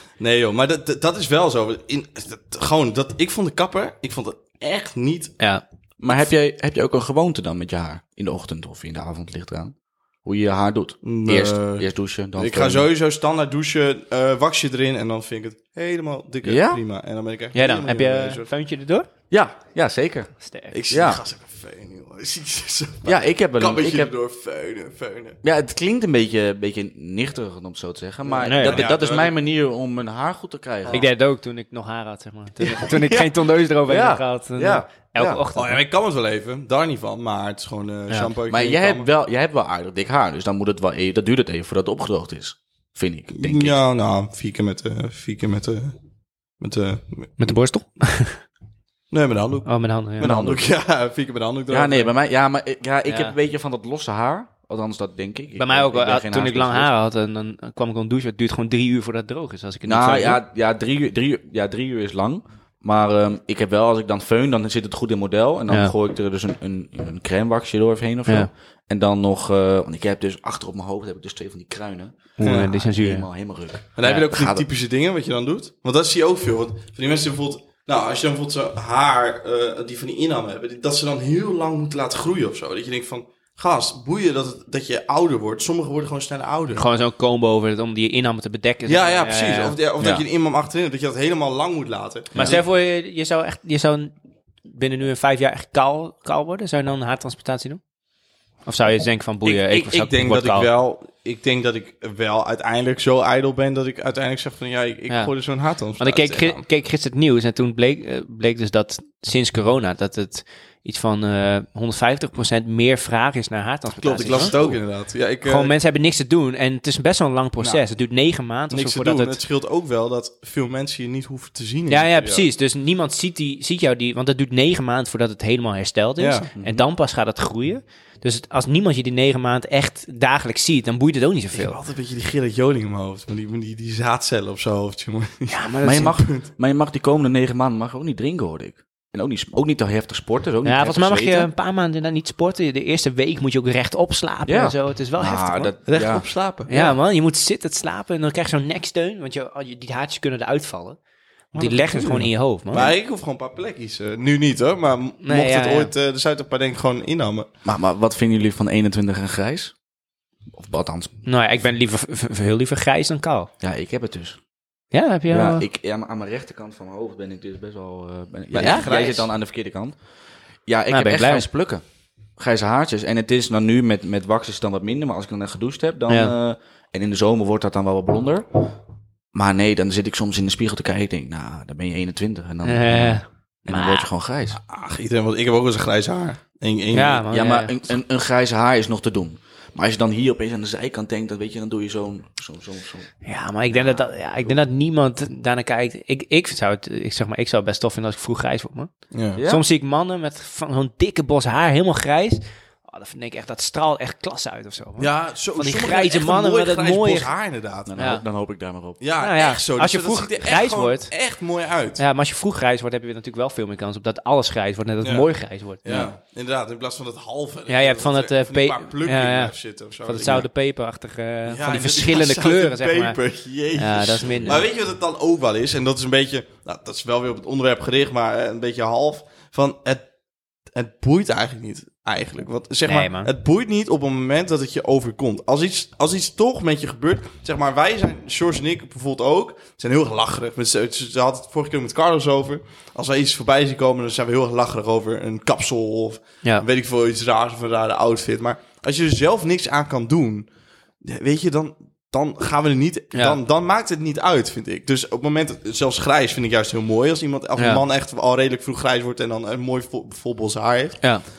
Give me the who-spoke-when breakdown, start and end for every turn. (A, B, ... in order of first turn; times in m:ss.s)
0:00.2-0:05.4 A
0:06.0-0:12.9 B
0:11.0-0:11.8 A
0:12.4-0:18.5 A
0:16.4-0:16.8 B
0:17.6-0:19.1 C
0:19.3-0:20.3 B
0:20.4-0:20.7 C
0:20.7-0:25.4 A
0:20.9-0:21.2 B
0:23.0-0:24.1 B
0:25.4-0:31.0 B
0:28.2-0:29.3 A
0:28.4-0:28.9 C
0:30.9-0:35.8 C
0:33.9-0:35.4 B
0:35.6-0:39.1 A
0:38.5-0:43.8 B
0:43.3-0:45.9 A
0:46.6-0:47.5 A
0:47.4-0:48.4 C
0:49.1-0:52.1 A
0:49.6-0:50.3 C
0:50.2-0:50.7 B
0:51.7-0:56.9 B
0:53.1-0:53.4 C
0:55.6-1:00.4 C
0:59.8-1:14.6 B
1:12.4-1:13.3 C
1:12.4-1:12.7 A
1:14.0-1:26.9 A
1:26.8-1:29.8 C
1:28.9-1:32.6 A
1:30.0-1:30.2 B
1:32.3-1:32.6 B
1:32.4-1:34.1 C
1:34.6-1:37.8 C
1:38.6-1:40.7 C
1:39.4-1:46.6 A
1:46.0-1:54.6 C
1:54.0-1:55.7 A
1:54.3-1:54.8 B
1:55.4-1:59.4 C
1:58.7-2:02.4 A
2:01.9-2:11.8 C
2:06.2-2:06.5 A
2:06.6-2:06.9 B
2:11.5-2:16.5 A
2:15.5-2:16.2 C
2:15.8-2:21.5 B
2:20.6-2:26.2 C
2:24.5-2:26.3 B
2:25.9-2:26.9 A
2:26.7-2:31.0 C
2:31.5-2:32.9 C
2:31.6-2:37.5 A
2:35.2-2:35.9 C
2:37.6-2:39.7 B
2:40.5-2:41.1 B
2:41.2-2:43.5 C
2:43.6-2:44.4 B
2:44.9-2:45.6 C
2:45.3-2:49.9 B
2:48.5-2:49.3 A
2:48.6-2:49.1 C
2:50.6-2:51.8 B
2:50.9-2:51.4 C
2:52.4-2:58.7 B
2:59.3-3:04.6 B
3:02.6-3:04.1 C
3:04.7-3:07.3 A
3:06.9-3:07.7 C
3:07.3-3:13.1 B
3:13.2-3:18.9 C
3:13.7-3:14.0 B
3:19.1-3:19.4 A
3:19.4-3:19.6 B
3:19.4-3:27.3 C
3:25.0-3:27.9 A
3:27.9-3:29.0 B
3:28.0-3:28.2 C
3:29.0-3:32.0 A
3:29.2-3:31.1 C
3:32.0-3:35.8 C
3:35.8-3:40.4 A
3:37.7-3:43.2 C
3:41.4-3:50.0 A
3:43.8-3:44.6 C
3:44.4-3:44.6 B
3:50.7-4:10.5 A
3:52.9-3:53.3 C
4:11.0-4:21.1 A
4:17.6-4:17.8 C